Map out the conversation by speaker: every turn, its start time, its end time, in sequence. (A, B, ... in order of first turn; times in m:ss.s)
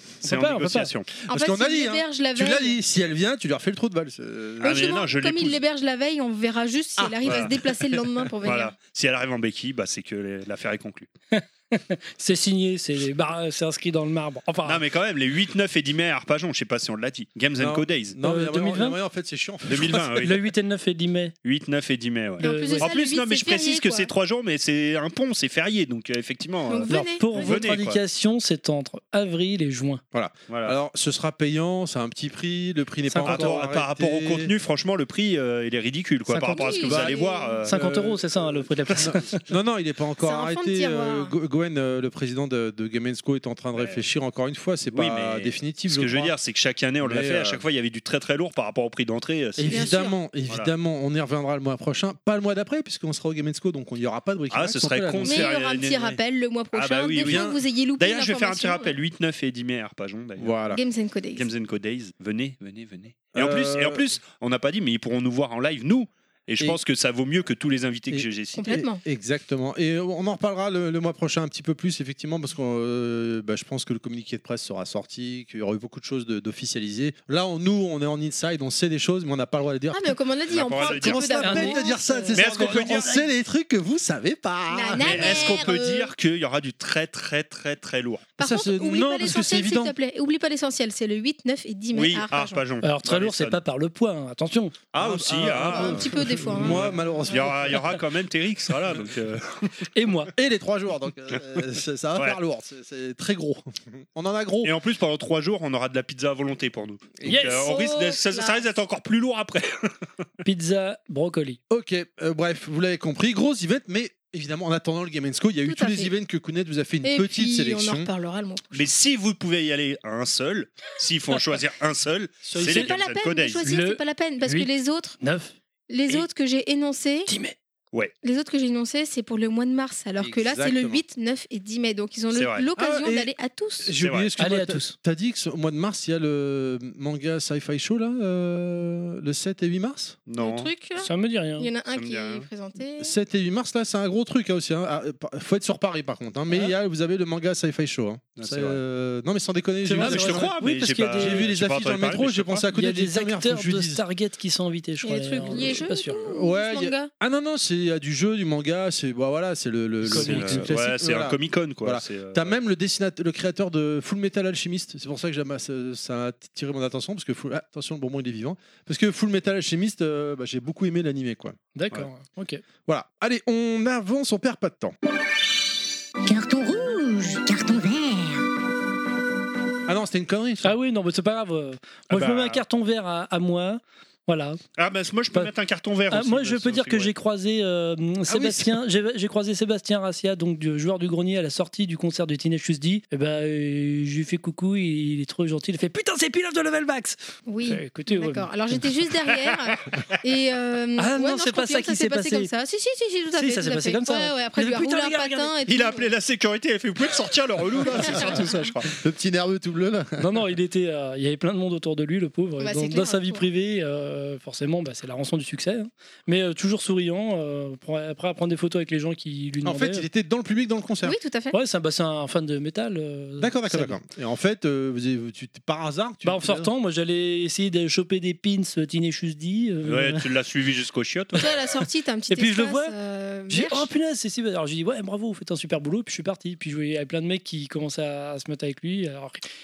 0:00.2-0:01.1 A
0:00.2-0:00.9 B
0:01.3-0:04.8 C
0:01.3-0:02.8 D
0:04.6-0:05.6 A
0:04.6-0:08.7 D
0:07.0-0:07.9 C
0:07.2-0:07.6 A
0:08.4-0:11.1 A
0:11.3-0:14.8 B
0:14.6-0:18.2 A
0:17.6-0:20.2 C
0:18.2-0:19.0 B
0:19.7-0:20.4 A
0:20.2-0:21.3 B
0:21.4-0:28.0 A
0:22.4-0:24.1 D
0:22.4-0:22.9 B
0:26.7-0:27.6 D
0:26.9-0:30.0 B
0:30.1-0:34.5 C
0:30.5-0:30.8 A
0:33.1-0:33.6 B
0:33.2-0:37.7 A
0:36.3-0:36.7 B
0:36.5-0:37.6 D
0:36.9-0:46.4 C
0:37.7-0:39.4 B
0:40.2-0:41.3 D
0:43.8-0:44.0 A
0:44.9-0:49.9 A
0:47.0-0:47.6 C
0:49.6-0:55.5 C
0:49.7-0:50.2 D
0:54.5-0:56.2 A
0:55.2-0:59.0 D
0:56.7-1:00.6 A
0:57.2-0:57.6 C
1:00.4-1:00.8 C
1:00.7-1:01.5 D
1:01.4-1:08.8 A
1:03.3-1:04.0 C
1:08.1-1:25.7 C
1:08.6-1:09.0 D
1:19.9-1:22.4 D
1:20.5-1:21.6 A
1:21.4-1:21.8 B
1:22.3-1:23.2 A
1:22.5-1:23.1 B
1:24.7-1:26.1 D
1:25.0-1:28.3 A
1:28.4-1:32.6 D
1:28.4-1:30.0 C
1:31.9-1:33.6 A
1:32.8-1:34.8 B
1:34.9-1:39.7 A
1:35.0-1:37.9 C
1:35.5-1:36.9 D
1:39.9-1:40.3 B
1:40.4-1:44.7 C
1:44.6-1:49.9 A
1:47.2-1:47.7 B
1:47.4-1:48.7 D
1:50.4-1:51.6 B
1:51.7-1:58.1 C
1:55.6-1:56.1 D
1:57.0-1:58.9 D
1:58.7-2:03.7 A
2:02.4-2:02.9 B
2:02.6-2:05.2 D
2:03.6-2:05.5 B
2:05.9-2:07.3 D
2:07.3-2:07.6 B
2:08.2-2:14.0 D
2:10.2-2:11.0 C
2:12.3-2:12.7 A
2:12.8-2:20.2 C
2:14.0-2:14.3 A
2:14.4-2:15.0 B
2:20.3-2:20.7 A
2:20.4-2:23.1 D
2:21.0-2:21.7 B
2:21.9-2:22.5 A
2:23.0-2:30.6 C
2:26.5-2:26.7 B
2:28.4-2:28.8 A
2:29.8-2:31.5 B
2:30.0-2:32.6 A
2:31.1-2:34.0 C
2:32.7-2:36.2 B
2:35.0-2:37.1 D
2:35.5-2:51.6 C
2:40.1-2:40.7 B
2:40.1-2:42.6 A
2:51.8-2:52.6 B
2:52.9-2:55.0 C
2:56.3-2:58.5 E
2:59.9-3:00.8 C
3:00.6-3:04.6 B
3:02.1-3:02.4 A
3:02.1-3:02.6 C
3:04.8-3:07.1 A
3:06.1-3:18.5 B
3:08.3-3:08.8 C
3:17.5-3:26.1 D
3:21.0-3:22.5 B
3:23.4-3:25.5 B
3:25.7-3:28.9 A
3:28.0-3:28.5 D
3:28.8-3:30.4 C
3:30.2-3:40.1 B
3:32.6-3:33.5 D
3:39.6-3:41.2 C
3:41.0-3:41.6 D
3:41.5-3:44.0 B
3:43.4-3:46.7 C
3:46.2-3:50.3 B
3:49.8-3:51.5 A
3:51.4-3:53.9 D
3:52.3-3:53.0 B
3:53.5-3:59.4 B